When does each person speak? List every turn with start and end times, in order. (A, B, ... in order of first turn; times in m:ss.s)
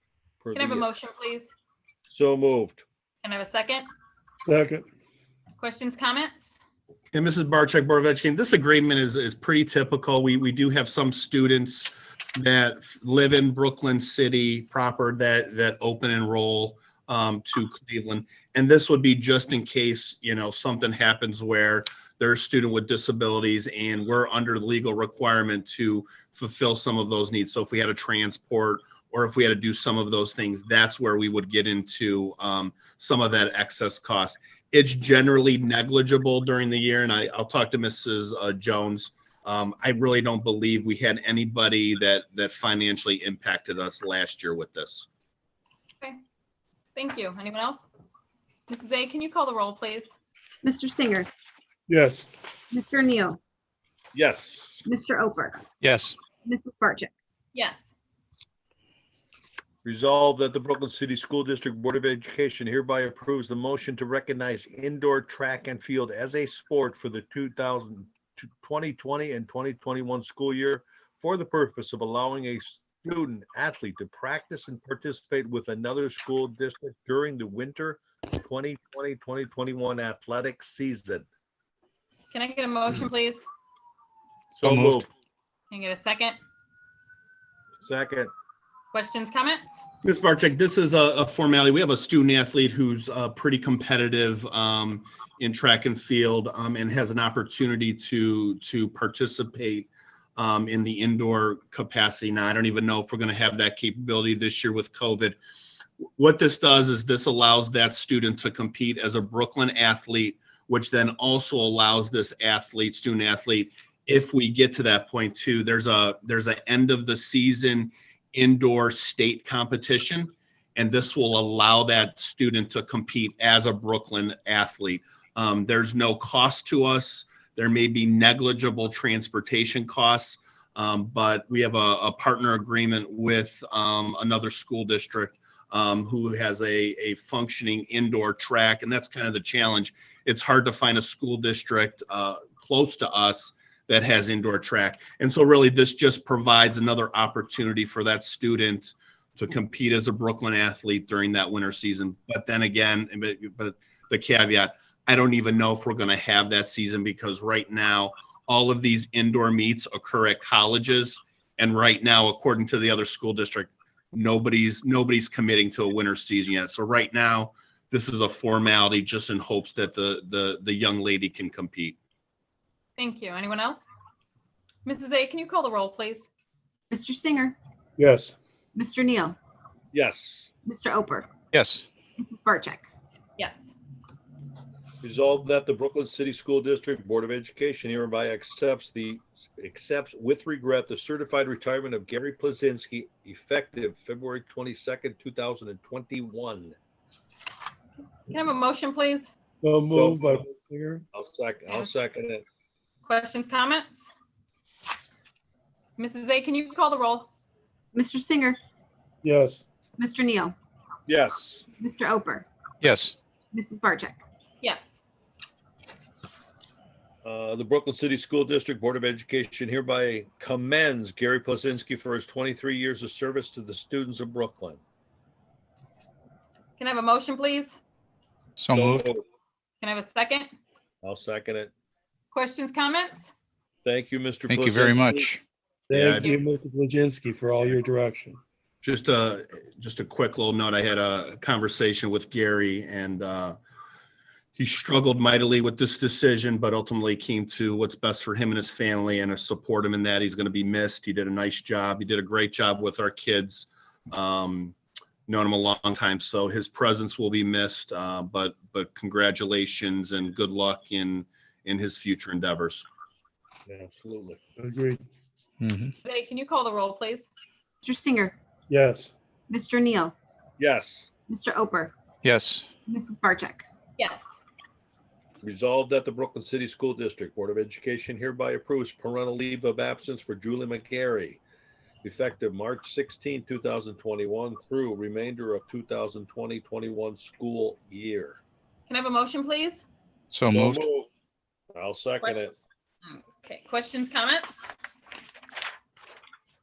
0:00.4-0:00.9 A
0:00.5-0:01.5 B
0:02.1-0:02.8 A
0:03.2-0:03.8 B
0:04.4-0:04.8 C
0:05.6-0:06.6 B
0:07.1-0:45.1 D
0:46.9-0:47.8 B
0:48.7-0:50.1 B
0:50.6-0:51.3 E
0:51.9-0:52.3 C
0:52.7-0:53.4 E
0:54.1-0:54.8 A
0:54.8-0:55.6 E
0:55.8-0:56.2 F
0:56.4-0:57.1 E
0:57.5-0:57.9 B
0:59.8-1:21.2 A
1:22.3-1:23.4 B
1:24.6-1:25.1 F
1:24.6-1:25.1 A
1:25.7-1:26.4 B
1:27.8-1:28.3 A
1:28.9-1:29.8 B
1:30.0-1:45.4 D
1:46.2-2:52.0 D
2:53.0-2:53.8 B
2:54.8-2:56.3 B
2:56.9-2:57.6 E
2:58.0-2:58.4 C
2:58.7-2:59.4 E
2:59.9-3:00.5 A
3:00.6-3:01.3 E
3:01.5-3:01.9 F
3:02.2-3:02.9 E
3:03.4-3:03.7 B
3:05.0-3:16.8 A
3:18.2-3:19.3 B
3:19.6-3:21.0 C
3:19.9-3:20.5 A
3:21.1-3:22.4 A
3:23.0-3:24.1 B
3:26.0-3:27.3 B
3:27.9-3:28.6 E
3:29.2-3:29.6 C
3:30.0-3:30.6 E
3:31.1-3:31.7 A
3:31.8-3:32.4 E
3:32.8-3:33.2 F
3:33.5-3:34.2 E
3:34.6-3:35.0 B
3:37.2-3:44.8 A
3:46.8-3:47.8 B
3:48.6-3:49.1 F
3:48.7-3:49.2 A
3:49.8-3:50.5 B
3:51.0-3:51.7 A
3:52.3-3:53.3 B
3:53.8-3:55.3 A
3:54.5-3:55.4 F
3:55.9-3:58.4 C
3:55.9-3:56.3 D
3:56.1-3:56.4 B
3:58.8-4:03.6 D
4:04.5-4:14.8 D
4:15.3-4:22.8 D
4:23.7-4:24.4 A
4:24.6-4:25.0 C
4:25.6-4:25.9 F
4:26.0-4:27.3 B
4:27.8-4:28.4 E
4:28.7-4:29.1 C
4:29.5-4:30.1 E
4:30.6-4:31.1 A
4:31.3-4:31.9 E
4:32.2-4:32.7 F
4:32.9-4:33.6 E
4:34.0-4:34.4 B
4:35.4-4:41.4 A
4:42.0-4:48.4 A
4:48.9-4:49.8 B
4:50.3-4:50.8 F
4:50.5-4:51.1 A
4:51.7-4:52.5 A
4:53.0-4:54.7 B